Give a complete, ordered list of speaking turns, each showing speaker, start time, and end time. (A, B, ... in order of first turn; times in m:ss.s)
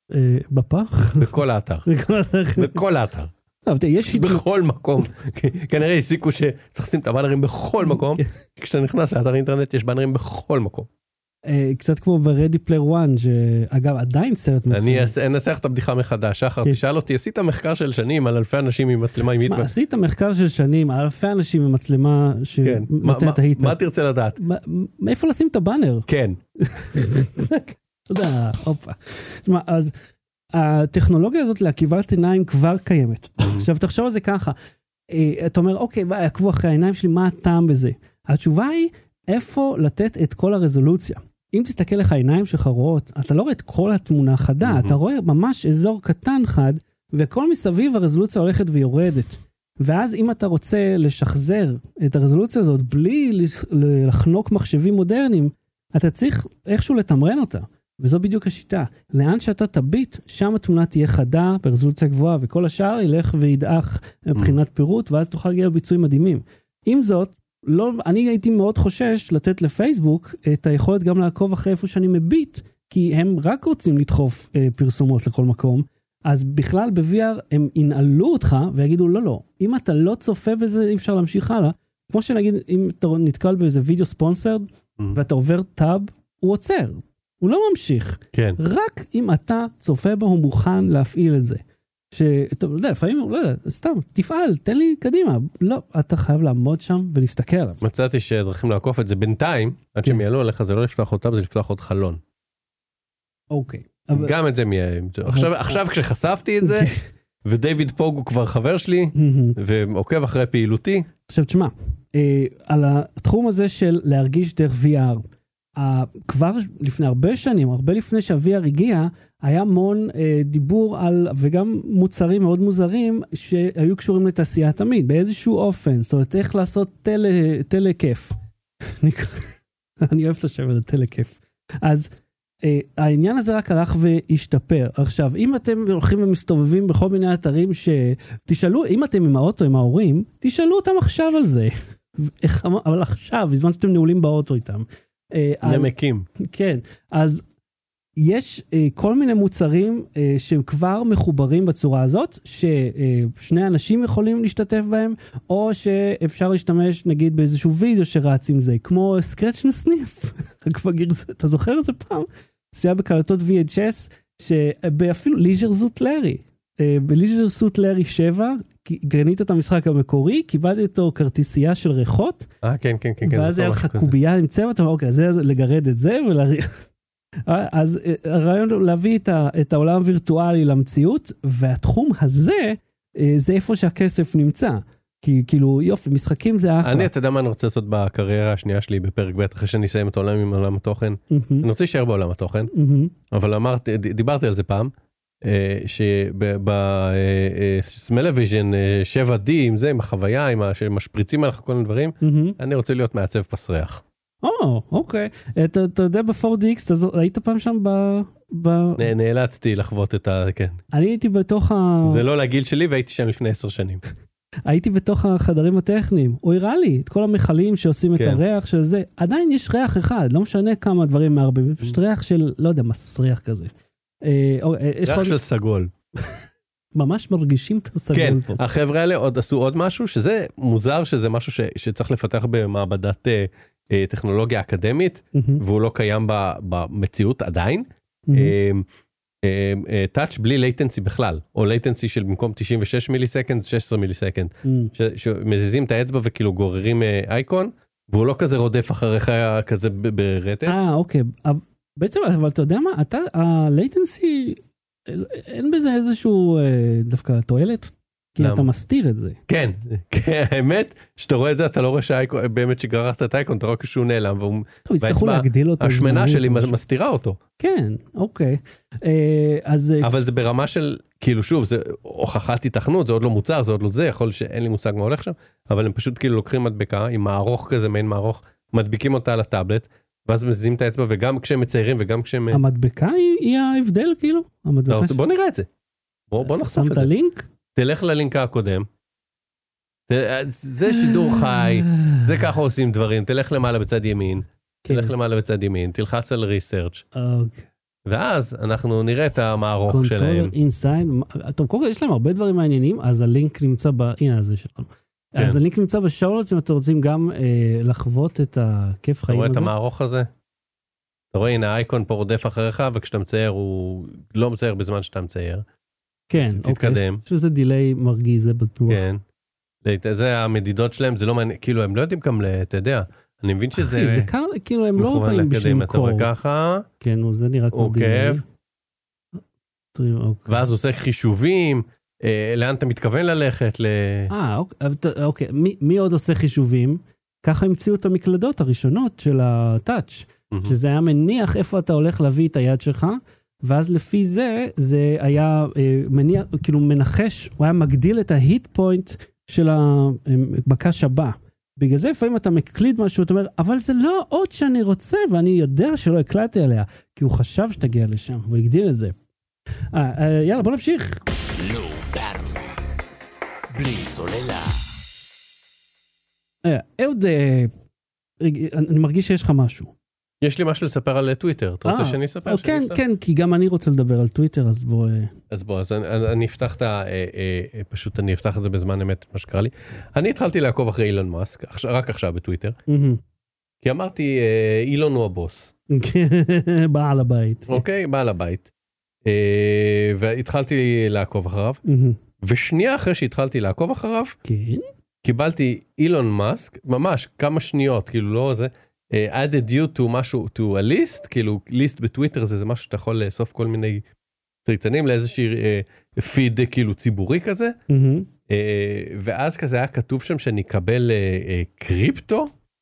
0:00.1-0:01.3 A
0:01.2-0:01.8 B
0:01.8-0:02.8 A
0:02.6-0:03.3 B
0:03.6-0:04.4 A
0:04.1-0:10.9 B
0:07.8-0:08.2 A
0:11.4-0:15.1 A
0:14.7-0:19.7 B
0:19.4-0:23.8 A
0:22.6-0:24.4 B
0:24.4-0:26.0 A
0:26.1-0:26.4 B
0:26.6-0:27.5 A
0:27.5-0:27.7 B
0:28.1-0:29.9 A
0:30.5-0:34.5 A
0:35.1-1:37.8 A
0:44.6-0:45.0 B
1:28.3-1:28.6 B
1:37.8-1:42.2 B
1:43.5-1:44.3 A
1:44.1-1:46.9 B
1:45.2-1:45.8 A
1:46.6-1:47.0 A
1:47.4-1:51.1 B
1:49.1-1:49.6 A
1:51.2-1:55.2 A
1:55.8-2:08.4 A
2:09.0-2:09.5 A
2:10.0-2:12.1 A
2:12.6-2:27.4 A
2:25.6-2:26.3 B
2:28.2-2:52.5 A
2:52.6-2:54.1 B
2:53.2-2:56.8 A
2:57.4-3:07.1 A
3:06.8-3:12.7 B
3:11.3-3:11.7 A
3:12.7-3:13.1 A
3:13.3-3:24.0 B
3:22.2-3:22.6 A
3:24.4-3:29.1 A
3:29.0-3:30.8 B
3:30.9-3:32.2 A
3:32.0-3:34.0 B
3:34.6-3:45.4 A
3:38.2-3:38.4 B
3:45.0-3:45.9 B
3:46.9-3:48.6 A
3:48.1-3:58.8 B
3:55.3-3:55.6 A
3:58.3-3:58.5 A
3:59.4-4:10.8 B
4:04.6-4:04.9 A
4:10.6-4:19.4 A
4:18.4-4:18.7 B
4:19.5-4:27.4 B
4:24.9-4:26.8 A
4:27.6-4:30.1 A
4:30.0-4:42.6 B
4:42.5-4:45.2 A
4:44.9-4:45.7 B
4:46.3-4:47.1 B
4:46.4-4:47.5 A
4:47.8-4:48.9 B
4:50.1-4:57.0 B
4:50.8-4:52.3 A
4:54.9-4:55.1 A
4:57.1-4:57.7 A
4:58.0-5:00.5 B
4:59.9-5:09.7 A
5:09.3-5:10.3 B
5:11.3-5:15.6 B
5:16.3-5:19.0 A
5:16.4-5:17.2 B
5:18.9-5:19.2 B
5:19.8-5:24.3 B
5:23.8-5:26.3 A
5:25.0-5:26.8 B
5:27.0-5:28.4 A
5:27.7-5:28.4 B
5:29.9-5:30.6 A
5:30.5-5:34.3 B
5:34.3-5:59.1 A
5:59.9-6:01.2 A
6:01.5-6:02.8 C
6:03.7-6:04.9 C
6:06.6-6:07.7 A
6:08.4-6:09.9 A
6:10.4-6:13.0 B
6:11.8-6:15.3 A
6:15.5-6:22.8 B
6:22.9-6:23.2 A
6:23.8-6:25.7 B
6:25.9-6:27.8 A
6:27.7-6:28.7 B
6:29.2-6:31.8 B
6:31.8-6:32.2 A
6:32.4-6:34.4 B
6:34.4-6:34.8 A
6:35.2-6:44.0 B
6:44.6-6:47.8 B
6:47.9-6:48.3 A
6:48.5-6:52.5 B